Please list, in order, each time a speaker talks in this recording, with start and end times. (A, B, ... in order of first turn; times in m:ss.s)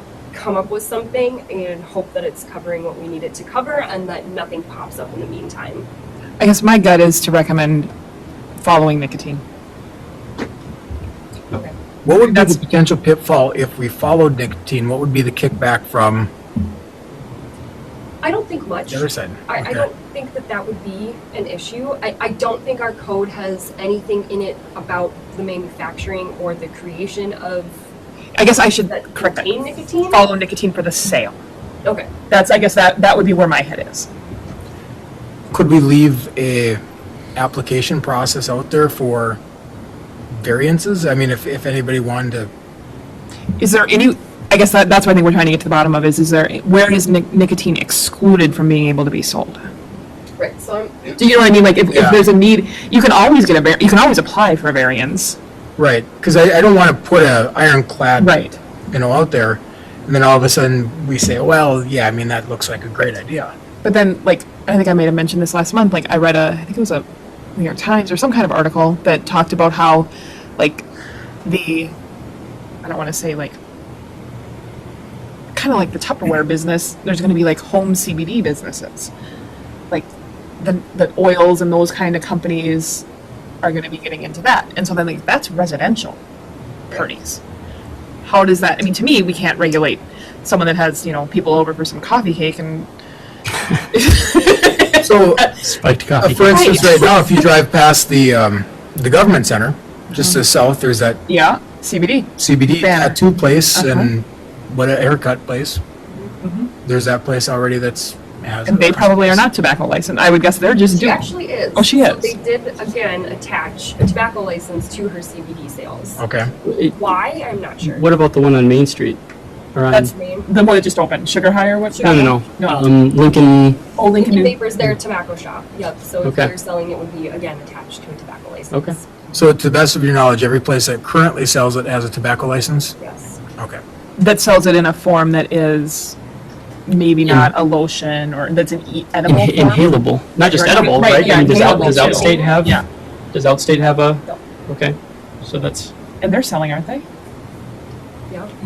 0:00.3-0:05.9 A
0:06.4-0:07.9 B
0:08.6-0:09.4 B
0:12.0-0:16.3 C
0:12.2-0:12.6 B
0:18.2-0:27.8 A
0:18.9-0:19.9 C
0:28.4-0:29.5 B
0:28.9-0:30.3 A
0:30.1-0:31.4 B
0:32.3-0:34.1 B
0:35.5-0:36.8 C
0:37.4-0:39.4 C
0:40.3-0:42.5 C
0:43.6-0:49.7 B
0:50.4-0:51.2 A
0:51.2-0:55.4 B
0:51.9-0:52.2 C
0:55.8-1:03.5 C
0:58.2-0:58.6 B
1:03.8-1:10.8 B
1:11.4-1:11.9 B
1:12.8-1:13.6 B
1:15.5-1:19.1 B
1:19.9-1:23.0 B
1:23.6-1:26.2 B
1:26.9-1:27.4 B
1:28.2-1:32.9 B
1:33.9-1:35.7 B
1:35.0-1:35.5 C
1:35.6-1:36.6 D
1:36.2-1:41.2 C
1:36.5-1:37.1 B
1:40.1-1:40.4 B
1:41.3-1:43.2 B
1:42.4-1:45.8 C
1:43.7-1:44.1 B
1:46.4-1:46.7 B
1:46.8-1:49.4 C
1:48.6-1:51.2 B
1:50.9-1:56.2 A
1:51.7-1:52.4 B
1:56.2-1:56.5 C
1:56.6-1:57.0 D
1:56.9-1:58.1 A
1:57.8-1:59.2 D
1:59.7-2:00.1 D
1:59.9-2:02.9 B
2:00.0-2:00.5 A
2:01.9-2:02.6 A
2:02.0-2:03.8 D
2:04.0-2:04.6 B
2:04.2-2:09.0 A
2:06.2-2:06.5 D
2:08.7-2:09.0 D
2:09.3-2:12.9 C
2:13.0-2:13.4 A
2:14.2-2:16.2 B
2:16.9-2:19.8 B
2:17.2-2:17.5 D
2:19.3-2:22.8 D
2:20.4-2:22.8 B
2:21.0-2:22.7 A
2:23.3-2:25.9 D
2:26.2-2:27.0 B